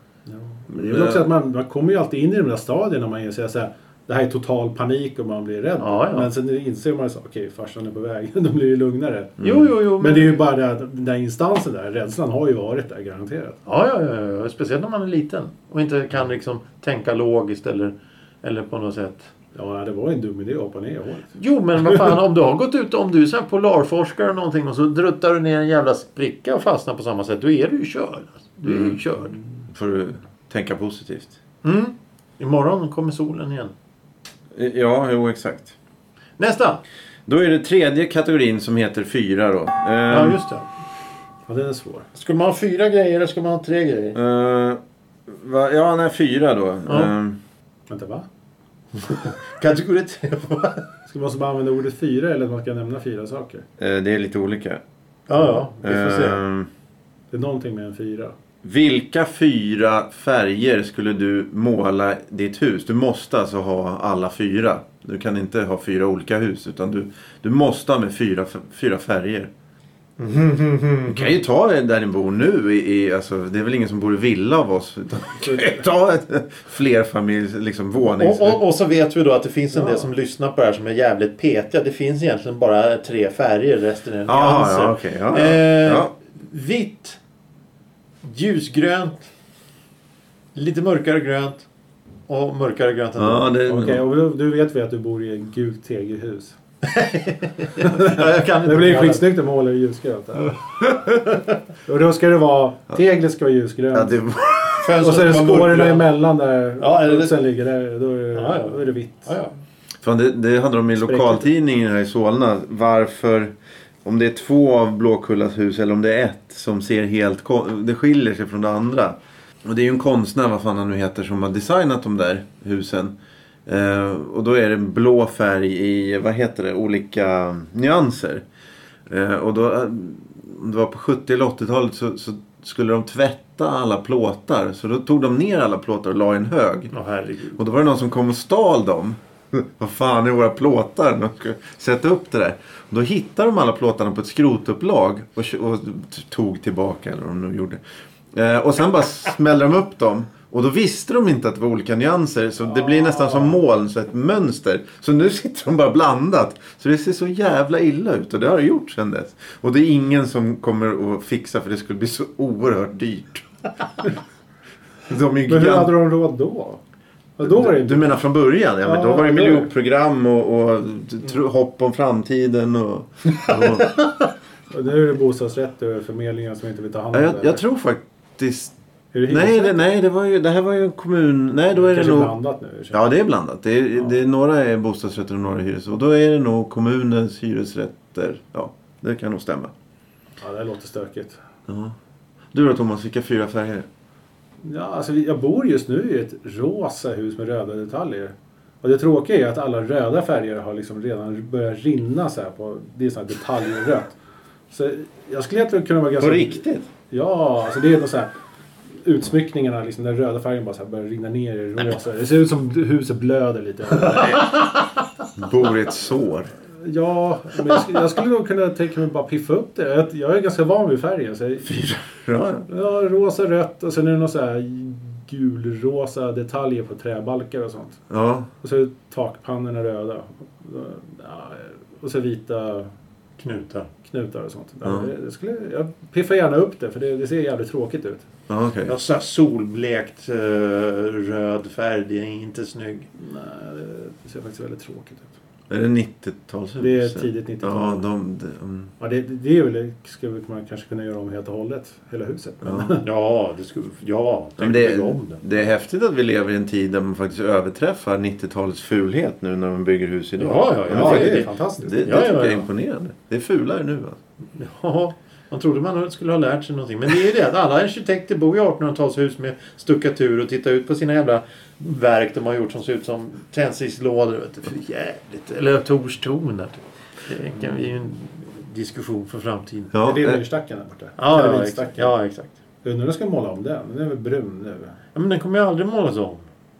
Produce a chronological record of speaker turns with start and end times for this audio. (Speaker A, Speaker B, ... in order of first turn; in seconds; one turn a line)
Speaker A: 0.3-9.4
Speaker B: 0.7-1.3
Speaker C: 5.8-6.3
Speaker B: 9.4-9.7
Speaker C: 9.4-10.4
Speaker A: 10.0-13.6
Speaker C: 13.7-19.3
Speaker A: 19.5-21.3
Speaker C: 21.4-29.4
Speaker B: 28.6-29.0
Speaker B: 29.7-31.3
Speaker C: 31.6-33.7
Speaker B: 34.5-35.7
Speaker C: 36.4-36.8
Speaker B: 37.3-40.4
Speaker C: 40.1-40.6
Speaker A: 41.5-42.1
Speaker C: 42.1-44.2
Speaker B: 44.1-47.4
Speaker C: 46.9-47.1
Speaker A: 47.9-48.2
Speaker C: 49.0-50.8
Speaker A: 51.0-53.6
Speaker B: 53.8-54.8
Speaker C: 55.3-56.4
Speaker B: 55.8-56.7
Speaker A: 57.3-58.3
Speaker B: 58.6-69.5
Speaker C: 70.2-71.3
Speaker B: 71.1-78.6
Speaker C: 78.0-87.2
Speaker A: 79.8-80.0
Speaker B: 84.3-86.1
Speaker C: 88.2-89.3
Speaker C: 90.5-91.6
Speaker C: 92.3-93.5
Speaker B: 93.2-94.0
Speaker A: 93.7-96.5
Speaker C: 96.8-99.2
Speaker A: 97.8-100.6
Speaker A: 101.8-104.2
Speaker B: 103.9-104.9
Speaker C: 104.8-106.1
Speaker A: 105.0-109.3
Speaker C: 106.8-107.3
Speaker C: 108.3-109.5
Speaker B: 110.0-113.5
Speaker A: 111.0-111.5
Speaker B: 114.0-123.1
Speaker B: 123.7-128.4
Speaker B: 129.1-136.9
Speaker C: 136.9-137.6
Speaker B: 137.6-147.8
Speaker B: 148.3-163.5
Speaker A: 153.2-153.5
Speaker B: 165.1-165.9
Speaker A: 165.5-166.8
Speaker A: 167.4-168.1
Speaker B: 167.4-173.9
Speaker A: 168.8-169.7
Speaker C: 173.5-174.1
Speaker A: 174.7-177.6
Speaker B: 177.1-178.7
Speaker A: 179.1-179.9
Speaker B: 179.3-182.3
Speaker A: 181.7-183.1
Speaker B: 182.9-189.7
Speaker A: 190.4-191.4
Speaker B: 191.7-191.9
Speaker B: 192.5-193.9
Speaker A: 194.6-204.2
Speaker A: 204.7-208.3
Speaker B: 206.2-206.9
Speaker A: 209.0-214.6
Speaker B: 215.4-216.5
Speaker A: 216.8-221.9
Speaker B: 221.7-222.7
Speaker A: 222.7-228.0
Speaker B: 228.1-228.5
Speaker A: 228.6-232.9
Speaker C: 233.4-233.9
Speaker A: 234.0-238.2
Speaker B: 234.8-235.1
Speaker B: 238.5-238.9
Speaker C: 238.9-243.1
Speaker A: 243.2-245.3
Speaker B: 245.7-248.9
Speaker A: 246.8-248.0
Speaker A: 249.0-253.0
Speaker B: 252.6-252.9
Speaker C: 253.0-255.4
Speaker B: 254.6-264.2
Speaker C: 260.4-262.7
Speaker A: 260.9-262.0
Speaker C: 264.6-279.9
Speaker B: 279.9-280.4
Speaker A: 280.0-282.1
Speaker C: 281.2-282.5
Speaker A: 282.8-284.9
Speaker C: 285.1-286.5